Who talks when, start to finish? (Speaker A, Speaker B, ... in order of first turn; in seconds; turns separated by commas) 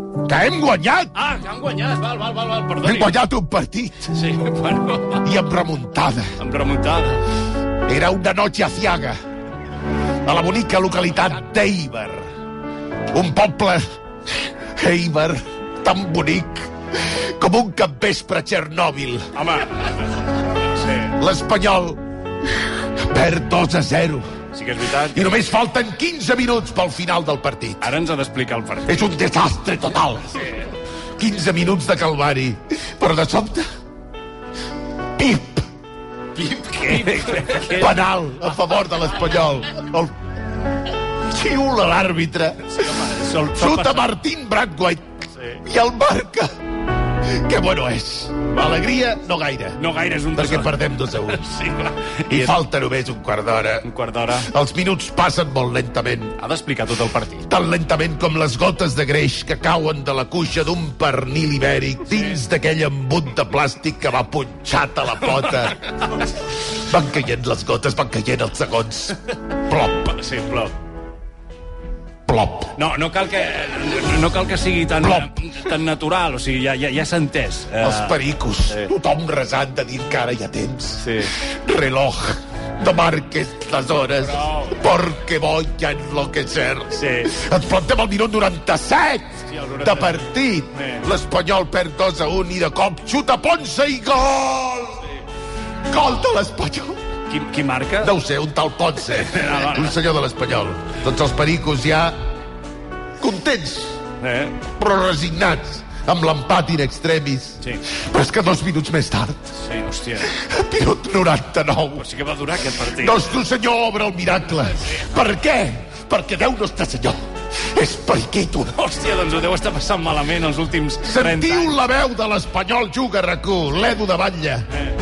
Speaker A: 0.2-1.1, Speaker B: 1.1-3.1, Speaker A: 2.8-4.1, Speaker B: 4.1-5.3, Speaker A: 5.2-6.3, Speaker B: 6.4-7.2, Speaker A: 7.9-9.2, Speaker A: 10.2-12.3, Speaker A: 13.1-13.8, Speaker A: 14.4-19.2, Speaker B: 19.3-20.0, Speaker B: 20.8-21.1, Speaker A: 21.1-22.0, Speaker A: 23.0-24.2, Speaker B: 24.5-25.4, Speaker A: 25.1-27.9, Speaker B: 27.8-29.0, Speaker A: 28.9-30.5, Speaker A: 31.2-33.6, Speaker A: 35.2-35.6, Speaker B: 36.4-38.0, Speaker A: 36.8-40.1, Speaker A: 41.2-45.1, Speaker B: 42.8-44.1, Speaker B: 45.4-45.6, Speaker A: 45.6-46.5, Speaker A: 47.2-49.8, Speaker B: 49.8-52.5, Speaker A: 50.3-51.4, Speaker A: 52.3-53.9, Speaker B: 53.8-54.5, Speaker A: 54.4-56.3, Speaker B: 56.4-57.5, Speaker A: 57.5-65.8, Speaker B: 62.1-62.4, Speaker B: 65.2-65.7, Speaker A: 66.7-70.1, Speaker B: 70.0-70.7, Speaker A: 72.3-72.7, Speaker B: 72.7-78.9, Speaker A: 75.0-75.3, Speaker A: 77.8-95.1, Speaker B: 81.0-81.3, Speaker B: 84.3-84.8, Speaker B: 86.9-87.4, Speaker B: 89.5-91.1, Speaker A: 95.9-97.0, Speaker B: 97.3-98.2, Speaker A: 98.0-102.2, Speaker B: 99.0-100.0, Speaker A: 103.2-104.0, Speaker B: 104.2-104.6, Speaker A: 104.8-109.4, Speaker B: 109.5-110.3, Speaker A: 110.2-112.0, Speaker B: 112.0-113.4, Speaker A: 112.9-118.8, Speaker B: 118.7-121.8, Speaker A: 121.0-124.7